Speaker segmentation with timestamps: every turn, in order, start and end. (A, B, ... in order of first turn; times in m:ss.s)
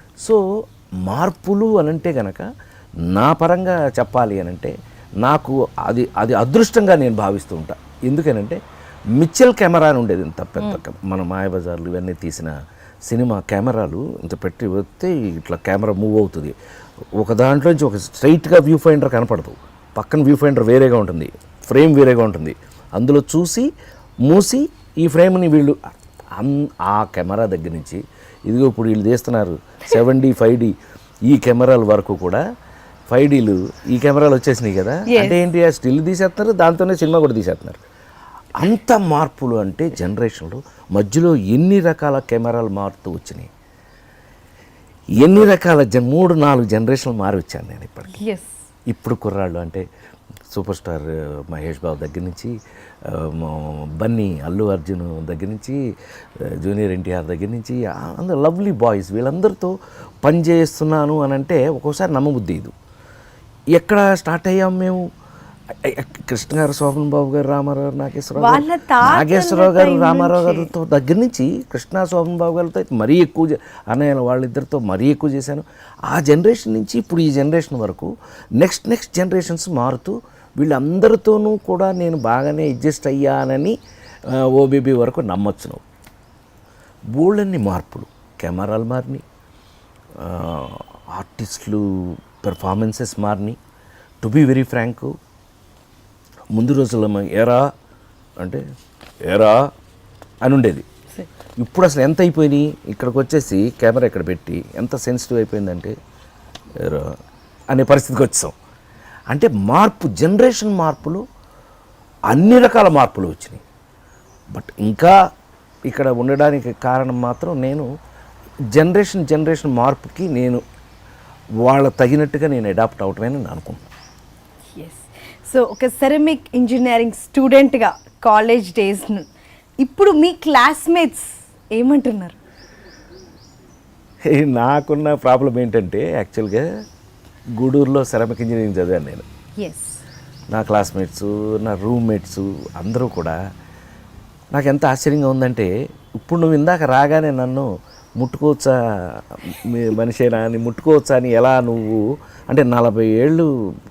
0:01.0-0:02.5 A
0:03.1-0:08.6 A
0:09.2-0:12.5 A
0:13.1-0:16.6 A
0:17.2-0:23.7 A
0:24.2-0:30.7 A
0:31.3-0:32.4 A
0:33.1-0:37.8 A
0:35.1-0:35.4 B
0:38.6-0:43.5 A
0:45.2-0:48.2 A
0:48.1-0:48.5 B
0:48.9-0:49.8 A
0:50.5-0:52.5 A
0:53.0-0:55.8 A
0:56.6-0:59.7 A
1:00.2-1:02.7 A
1:03.8-1:05.0 A
1:05.8-1:23.8 A
1:08.4-1:10.7 B
1:24.3-1:25.8 A
1:27.1-1:29.2 A
1:30.2-1:33.6 A
1:34.2-1:35.1 A
1:36.5-1:37.6 A
1:39.2-1:39.6 A
1:40.4-1:40.8 A
1:41.6-1:45.9 A
1:46.8-1:47.1 A
1:47.7-1:48.5 A
1:49.3-1:51.2 A
1:52.3-1:53.6 A
1:54.5-1:55.1 A
1:55.9-1:57.9 A
1:58.7-2:00.6 A
2:01.6-2:03.8 A
2:04.8-2:09.3 B
2:09.8-2:12.4 B
2:14.3-2:16.6 A
2:17.6-2:19.2 A
2:19.6-2:20.0 B
2:20.5-2:23.4 A
2:24.5-2:27.7 A
2:28.2-2:33.5 A